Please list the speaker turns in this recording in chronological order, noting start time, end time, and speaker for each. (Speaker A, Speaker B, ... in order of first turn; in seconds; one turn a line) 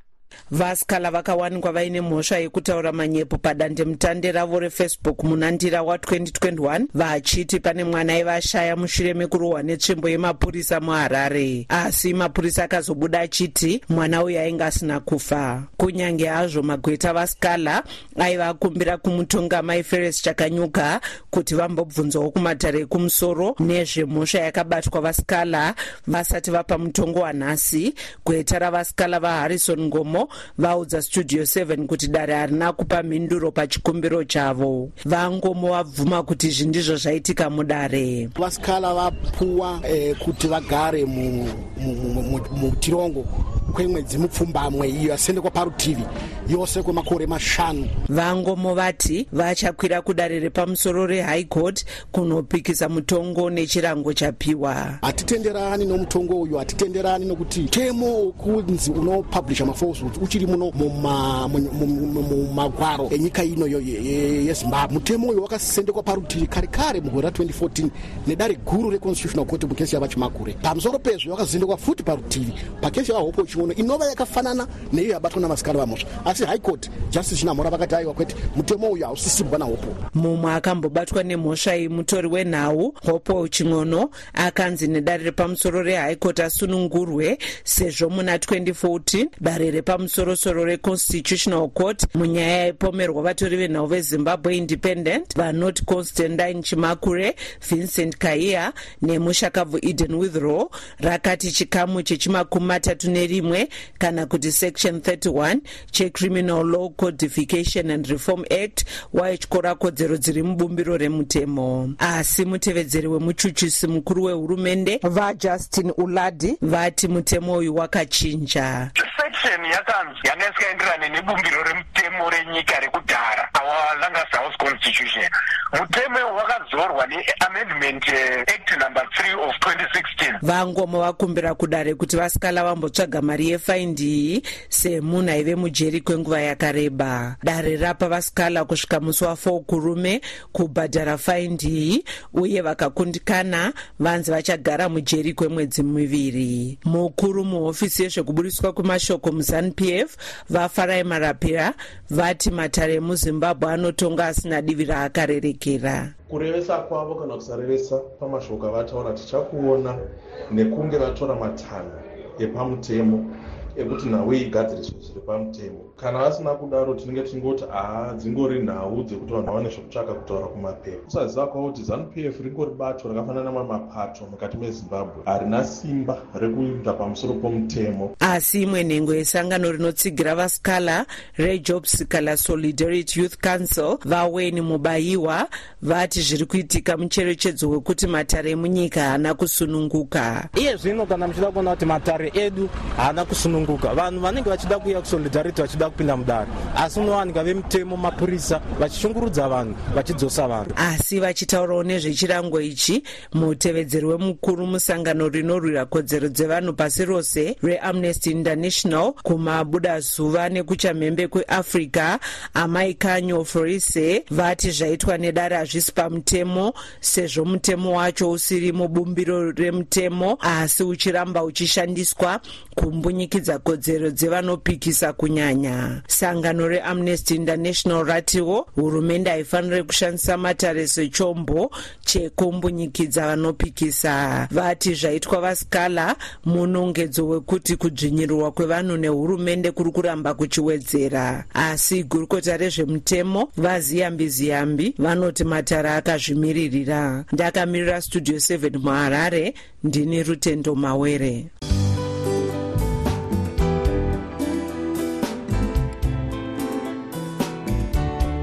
Speaker A: 0.5-38.3
Speaker B: 38.4-47.9
Speaker A: 48.1-55.0
Speaker B: 55.0-80.0
Speaker A: 80.1-118.9
Speaker C: 119.0-130.4
Speaker A: 130.4-156.1
Speaker D: 156.3-160.0
Speaker D: 160.5-178.1
Speaker A: 178.2-190.5
Speaker E: 190.5-200.7
Speaker A: 200.7-251.5